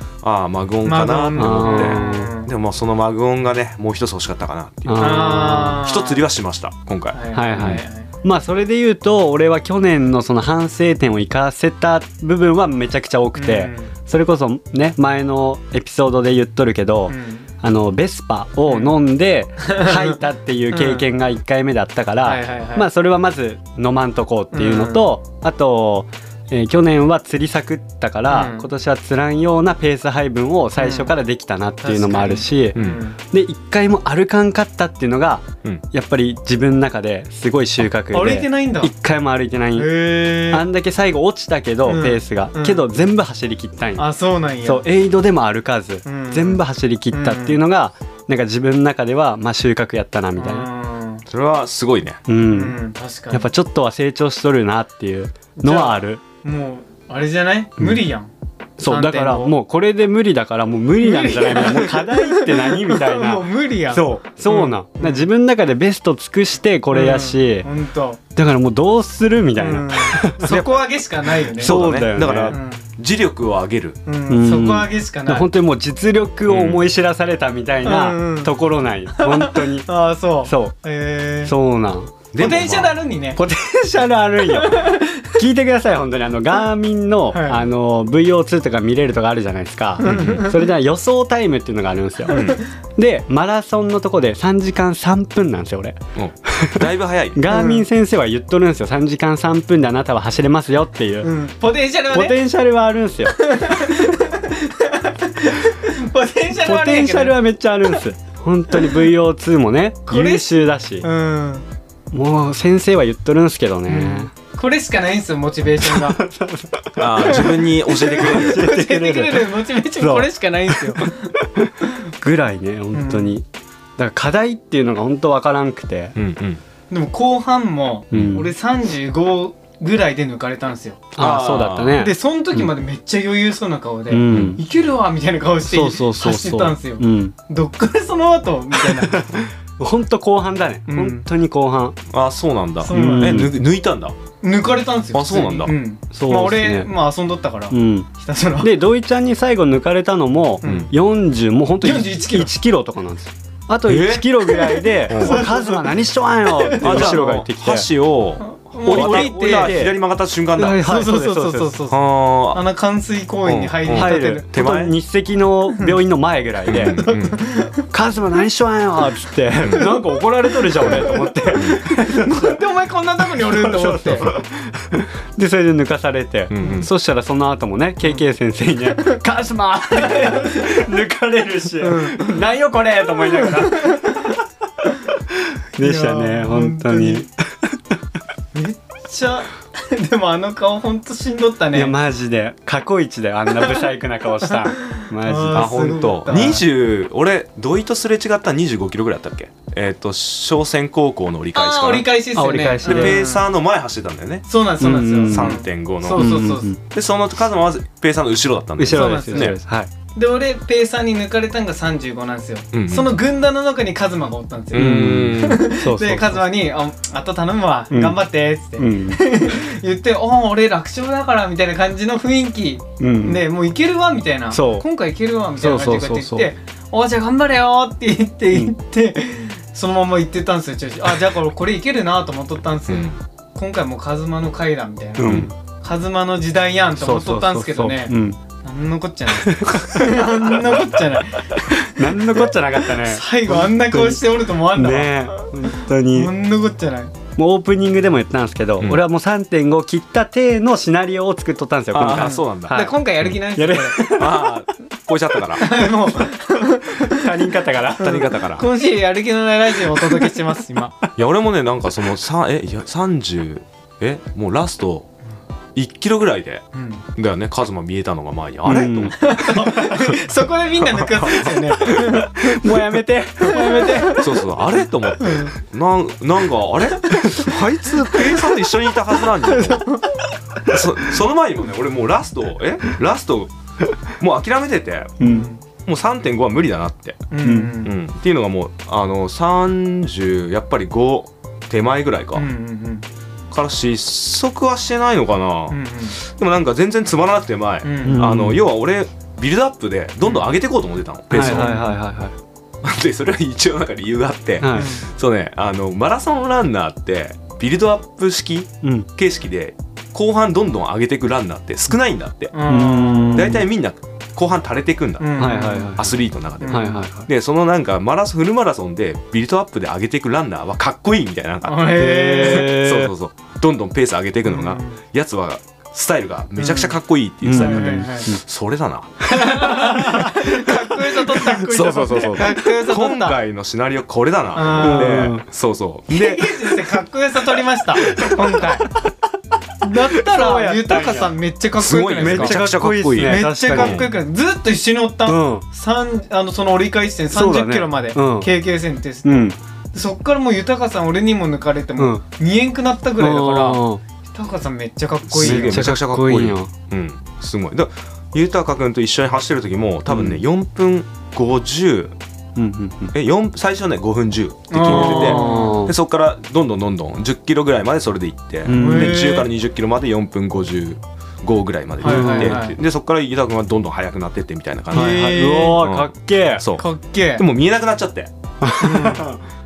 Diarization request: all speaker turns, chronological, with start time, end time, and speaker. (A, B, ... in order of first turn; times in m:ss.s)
0:00.2-0:07.8 A
0:00.8-0:02.5 B
0:01.4-0:02.2 C
0:04.9-0:05.8 C
0:05.0-0:06.2 B
0:07.1-0:08.1 B
0:07.3-0:44.1 C
0:13.4-0:13.9 B
0:17.1-0:17.5 B
0:18.7-0:19.0 B
0:19.6-0:21.1 B
0:22.2-0:22.9 B
0:24.5-0:25.1 B
0:28.3-0:28.7 B
0:30.8-0:31.2 B
0:31.8-0:33.2 B
0:32.8-0:33.0 A
0:38.1-0:38.9 B
0:39.8-0:40.7 B
0:41.8-0:42.8 B
0:44.0-0:44.9 B
0:44.6-0:50.7 C
0:46.0-0:47.6 B
0:50.4-0:51.2 B
0:51.3-0:52.2 A
0:52.3-0:52.8 C
0:52.5-0:53.5 B
0:53.3-0:56.2 C
0:55.6-0:58.3 B
0:58.8-1:07.7 C
0:58.8-0:59.5 B
1:01.0-1:05.3 B
1:06.9-1:08.2 B
1:08.4-1:10.5 C
1:09.6-1:11.9 B
1:10.5-1:10.8 A
1:11.6-1:14.0 A
1:11.6-1:12.6 C
1:12.5-1:12.9 B
1:14.1-1:15.5 B
1:14.3-1:19.9 C
1:16.5-1:16.9 A
1:17.8-1:18.5 B
1:19.1-1:21.5 B
1:20.4-1:20.8 C
1:21.4-1:22.2 C
1:22.3-1:23.0 A
1:22.4-1:23.4 B
1:23.4-1:41.3 C
1:24.5-1:25.4 B
1:27.3-1:27.6 B
1:30.0-1:30.6 B
1:30.0-1:30.5 A
1:32.3-1:32.6 A
1:32.3-1:32.6 B
1:36.2-1:37.4 A
1:37.5-1:37.9 B
1:41.2-1:42.4 B
1:42.1-1:44.0 C
1:43.4-1:47.4 B
1:46.6-1:51.1 C
1:48.8-1:49.0 B
1:50.1-1:51.7 B
1:52.1-1:54.3 C
1:53.9-1:56.2 B
1:55.8-2:03.4 C
1:57.0-1:58.7 A
1:57.3-2:01.3 B
2:02.9-2:03.4 B
2:04.0-2:06.2 C
2:06.2-2:06.6 A
2:06.9-2:11.1 B
2:08.1-2:08.4 A
2:08.1-2:08.5 C
2:11.2-2:12.7 C
2:11.2-2:12.0 A
2:12.0-2:19.3 B
2:14.1-2:14.6 C
2:14.3-2:14.6 A
2:15.6-2:17.4 C
2:18.8-2:22.0 C
2:20.9-2:21.2 B
2:22.1-2:24.1 A
2:22.8-2:23.5 B
2:22.9-2:23.6 C
2:24.4-2:28.8 B
2:25.1-2:25.7 A
2:26.1-2:26.9 C
2:27.7-2:28.1 C
2:28.6-2:37.9 C
2:30.6-2:30.9 B
2:30.6-2:30.9 A
2:31.8-2:32.5 B
2:33.9-2:34.3 A
2:34.5-2:35.9 B
2:35.1-2:35.4 A
2:36.5-2:37.3 B
2:36.8-2:40.8 A
2:38.4-2:39.8 B
2:38.9-2:40.0 C
2:40.6-2:41.8 C
2:40.8-2:42.0 B
2:41.9-2:42.6 A
2:42.5-2:44.5 B
2:43.4-2:44.9 A
2:43.9-2:47.1 C
2:46.7-2:47.4 A
2:46.8-2:47.9 B
2:47.9-2:52.6 C
2:49.6-2:49.9 A
2:49.7-2:54.3 B
2:53.4-3:04.3 C
2:56.5-2:56.9 A
2:56.6-2:56.9 B
3:00.0-3:00.8 B
3:01.8-3:02.4 B
3:03.3-3:04.4 B
3:05.4-3:07.8 C
3:05.8-3:07.3 B
3:08.5-3:11.9 B
3:11.7-3:16.0 C
3:14.5-3:16.6 B
3:15.5-3:22.1 A
3:21.6-3:23.5 B
3:22.4-3:23.2 C
3:22.8-3:24.5 A
3:24.5-3:26.7 B
3:24.8-3:26.8 C
3:25.3-3:29.6 A
3:28.8-3:29.9 C
3:28.9-3:29.6 B
3:30.1-4:07.1 B
3:32.7-3:33.1 A
3:34.7-3:35.7 A
3:34.8-3:36.5 C
3:37.9-3:38.2 C
3:38.8-3:39.3 C
3:43.0-3:43.4 C
3:44.5-3:44.9 C
3:45.6-3:46.5 C
3:52.9-3:53.2 A
3:55.2-3:55.5 C
3:55.2-3:55.5 A
3:57.0-3:58.4 C
3:59.4-4:00.8 C
4:01.8-4:06.3 C
4:07.4-4:14.6 C
4:11.9-4:12.8 A
4:12.1-4:14.2 B
4:14.0-4:15.7 A
4:15.6-4:21.0 B
4:17.0-4:18.3 C
4:18.0-4:18.7 A
4:20.0-4:20.3 C
4:21.2-4:25.1 A
4:25.8-4:26.6 A
4:26.7-4:27.0 B
4:27.2-4:29.4 A
4:28.6-4:30.0 C
4:29.2-4:32.7 B
4:31.0-4:31.9 A
4:31.8-4:34.3 C
4:33.4-4:34.3 B
4:34.2-4:39.9 A
4:35.2-4:35.5 B
4:39.5-4:40.1 B
4:40.6-4:43.5 A
4:44.2-4:45.2 A
4:45.2-4:45.5 C
4:45.2-4:45.6 B
4:45.8-4:47.3 A
4:47.3-4:47.9 B
4:47.4-4:47.8 C
4:47.8-4:52.5 A
4:52.4-4:53.1 B
4:53.5-5:01.8 A
4:55.7-4:56.2 B
4:57.8-4:58.3 B
4:58.0-4:58.6 C
5:01.3-5:02.4 C
5:01.4-5:02.0 B
5:02.8-5:12.6 A
5:04.6-5:05.0 C
5:04.7-5:05.1 B
5:08.8-5:09.1 C
5:12.5-5:13.6 B
5:12.7-5:13.6 C
5:13.3-5:29.4 A
5:15.2-5:16.0 B
5:15.4-5:17.3 C
5:16.6-5:17.0 B
5:21.6-5:22.8 B
5:22.0-5:23.1 C
5:24.5-5:25.0 B
5:26.6-5:27.0 B
5:27.4-5:28.4 C
5:27.5-5:28.3 B
5:29.3-5:33.4 B
5:29.4-5:30.3 C
5:31.3-5:36.9 A
5:34.5-5:35.3 B
5:34.8-5:35.4 C
5:36.1-5:38.9 B
5:38.1-5:38.4 C
5:39.8-5:42.6 B
5:40.1-5:41.4 C
5:41.8-5:44.1 A
5:42.2-5:44.1 C
5:43.2-5:55.9 B
5:45.3-5:45.6 C
5:47.3-5:48.5 C
5:49.2-5:49.6 C
5:52.0-5:52.2 C
5:53.2-5:54.0 C
5:55.3-6:02.2 A
5:55.4-5:56.7 C
6:00.1-6:00.4 C
6:02.6-6:03.1 C
6:03.1-6:18.3 A
6:04.7-6:05.8 B
6:04.9-6:06.0 C
6:08.7-6:09.3 C
6:08.7-6:09.5 B
6:12.0-6:12.6 C
6:12.0-6:12.8 B
6:14.9-6:16.6 C
6:14.9-6:15.8 B
6:16.8-6:17.4 B
6:18.6-6:19.4 C
6:18.8-6:19.3 B